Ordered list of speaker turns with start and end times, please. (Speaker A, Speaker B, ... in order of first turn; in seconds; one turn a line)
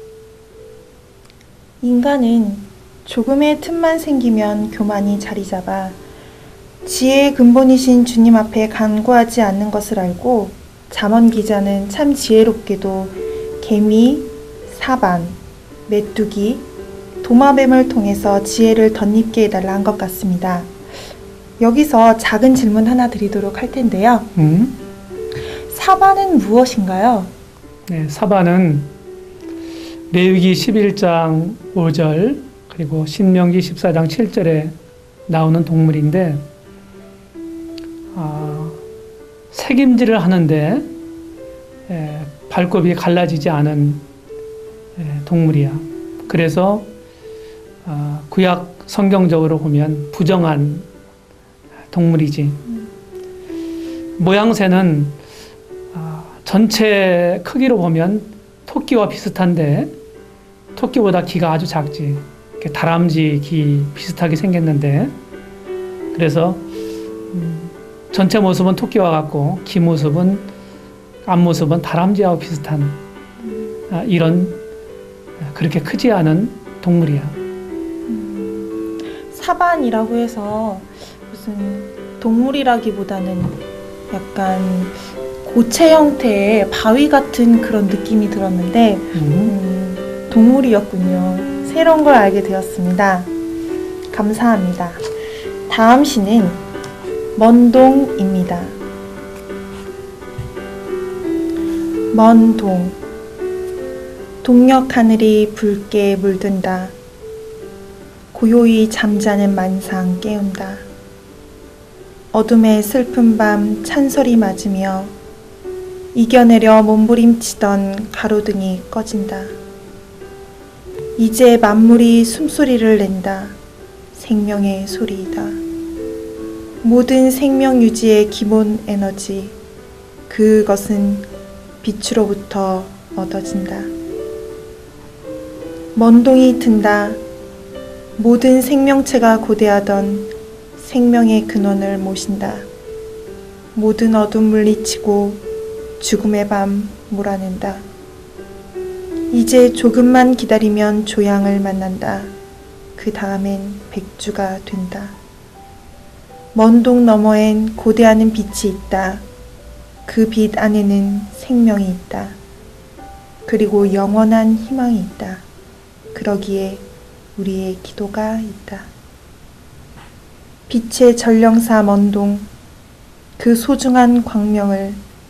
Speaker A: 1.8-6.0
Speaker A: 6.8-16.6
Speaker A: 17.2-20.7
Speaker A: 21.6-24.3
Speaker B: 24.4-24.8
Speaker A: 25.7-27.3
Speaker B: 27.9-28.9
Speaker B: 30.1-34.7
Speaker B: 35.3-36.4
Speaker B: 38.1-38.8
Speaker B: 39.5-40.9
Speaker B: 41.9-44.0
Speaker B: 45.0-46.9
Speaker B: 47.8-50.9
Speaker B: 51.9-52.6
Speaker B: 54.2-55.2
Speaker B: 55.9-59.9
Speaker B: 60.7-65.2
Speaker B: 66.1-66.7
Speaker B: 67.3-70.5
Speaker B: 71.2-73.0
Speaker B: 73.9-74.6
Speaker B: 75.4-77.4
Speaker A: 78.1-93.3
Speaker B: 89.1-89.5
Speaker A: 94.1-95.0
Speaker A: 95.7-96.6
Speaker A: 97.3-98.8
Speaker A: 102.1-103.0
Speaker A: 104.4-106.9
Speaker A: 108.3-110.8
Speaker A: 112.3-115.2
Speaker A: 116.1-119.6
Speaker A: 121.2-123.6
Speaker A: 124.1-125.6
Speaker A: 126.8-129.6
Speaker A: 130.3-131.3
Speaker A: 131.8-133.9
Speaker A: 135.9-137.2
Speaker A: 138.2-142.7
Speaker A: 143.7-145.4
Speaker A: 146.0-147.8
Speaker A: 149.3-152.3
Speaker A: 152.9-155.2
Speaker A: 156.5-159.2
Speaker A: 160.1-162.4
Speaker A: 163.4-165.4
Speaker A: 166.1-166.8
Speaker A: 167.3-168.9
Speaker A: 170.7-172.5
Speaker A: 173.4-175.0